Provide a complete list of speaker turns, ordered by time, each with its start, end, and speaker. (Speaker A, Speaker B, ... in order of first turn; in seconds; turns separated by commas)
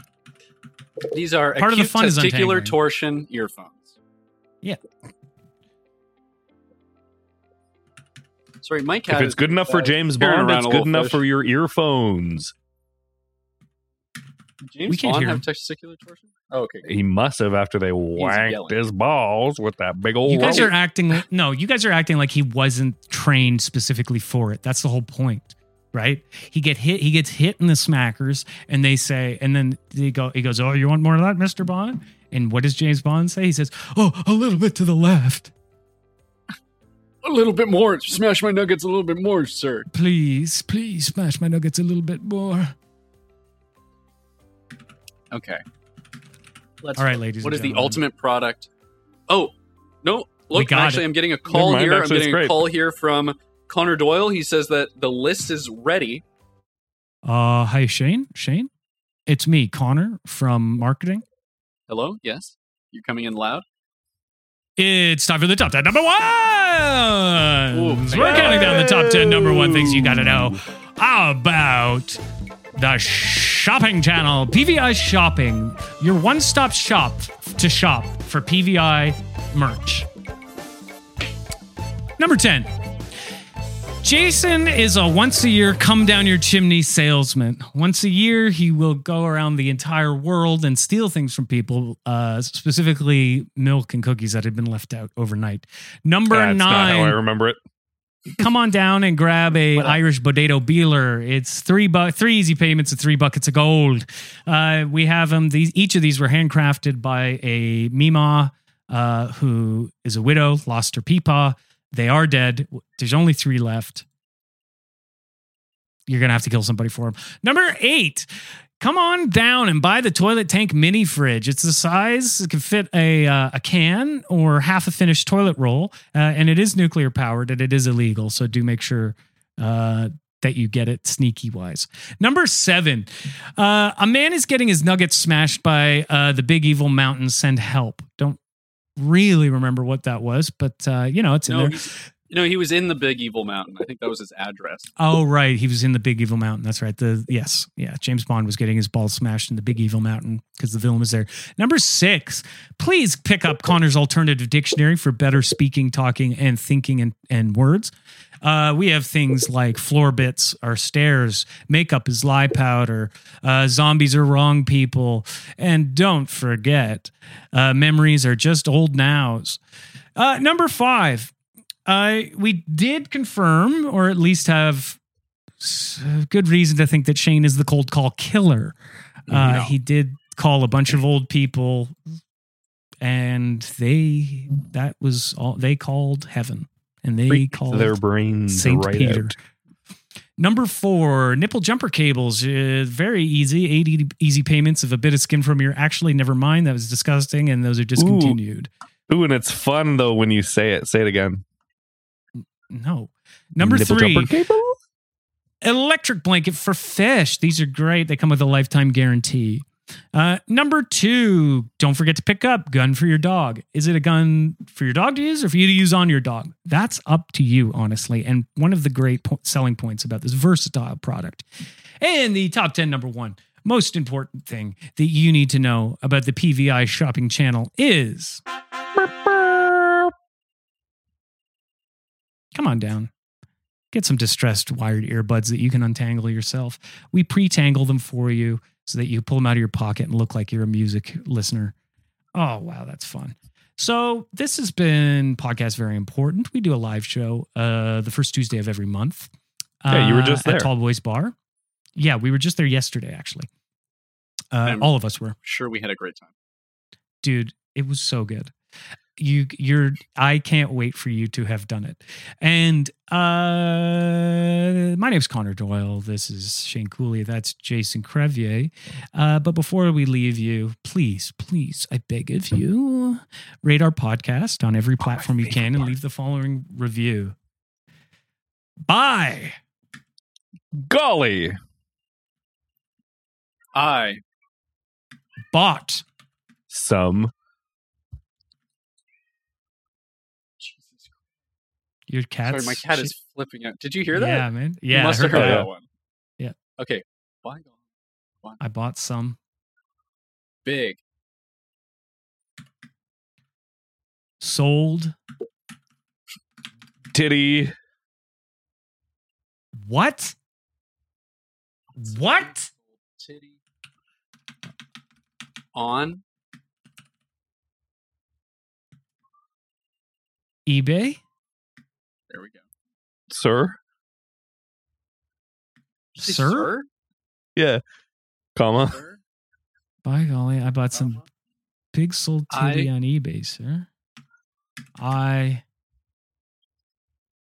Speaker A: 1.1-4.0, Speaker B: 1.6-2.8, Speaker A: 8.6-11.2, Speaker C: 9.1-12.5, Speaker A: 14.7-16.9, Speaker B: 14.9-15.4, Speaker C: 16.9-20.7, Speaker A: 18.2-18.8, Speaker B: 20.2-35.5, Speaker A: 20.5-20.7, Speaker A: 37.2-39.9, Speaker B: 39.9-42.8, Speaker A: 45.3-45.6, Speaker A: 46.8-48.7, Speaker B: 47.0-48.0, Speaker A: 49.3-56.2, Speaker B: 50.5-51.1, Speaker C: 51.5-52.7, Speaker B: 57.2-58.7, Speaker B: 59.3-61.2, Speaker A: 61.9-63.6, Speaker B: 64.8-72.2, Speaker A: 67.7-68.9, Speaker C: 68.2-70.5, Speaker B: 72.8-80.1, Speaker B: 82.2-82.7, Speaker B: 84.0-97.2, Speaker C: 96.3-97.6, Speaker B: 98.3-114.0, Speaker A: 99.8-100.0, Speaker B: 116.1-118.3, Speaker B: 118.8-138.4, Speaker B: 139.0-141.9, Speaker A: 141.5-144.9, Speaker B: 145.0-169.6, Speaker B: 170.2-171.3, Speaker B: 171.9-175.0, Speaker B: 175.6-178.8, Speaker B: 179.3-181.9, Speaker A: 179.3-179.7, Speaker B: 183.0-188.0, Speaker C: 187.3-189.3, Speaker B: 188.5-189.4, Speaker B: 190.4-198.7, Speaker C: 198.0-198.4, Speaker C: 199.1-201.4, Speaker B: 202.7-204.3, Speaker C: 203.6-204.8, Speaker B: 205.6-221.5, Speaker B: 222.0-228.4, Speaker B: 229.0-230.1, Speaker B: 232.6-233.1, Speaker B: 233.9-241.7, Speaker B: 242.3-249.3, Speaker B: 249.8-251.3, Speaker C: 249.9-250.7, Speaker B: 252.0-253.5, Speaker B: 254.5-255.3, Speaker A: 255.4-256.3, Speaker B: 257.2-258.5, Speaker B: 259.2-277.4, Speaker C: 275.1-275.9, Speaker B: 278.9-279.6, Speaker C: 280.8-281.6, Speaker A: 283.8-284.2, Speaker B: 285.5-286.0, Speaker C: 286.7-287.3, Speaker A: 290.6-291.1, Speaker B: 292.1-293.1, Speaker A: 292.4-295.9, Speaker B: 294.1-295.7, Speaker C: 295.3-295.7, Speaker A: 296.8-297.8, Speaker B: 298.6-299.4, Speaker A: 300.6-301.0, Speaker B: 304.4-305.2, Speaker C: 307.1-307.7, Speaker B: 309.8-310.4, Speaker B: 312.0-312.7, Speaker A: 312.1-313.6, Speaker A: 315.8-316.2, Speaker B: 320.7-321.2, Speaker A: 322.3-322.6, Speaker C: 323.3-323.8, Speaker A: 326.1-326.9, Speaker B: 326.2-326.7, Speaker C: 327.6-327.8, Speaker C: 328.6-329.0, Speaker A: 328.9-329.2, Speaker B: 330.0-331.2, Speaker B: 331.9-333.9, Speaker A: 332.5-332.9, Speaker B: 335.0-335.6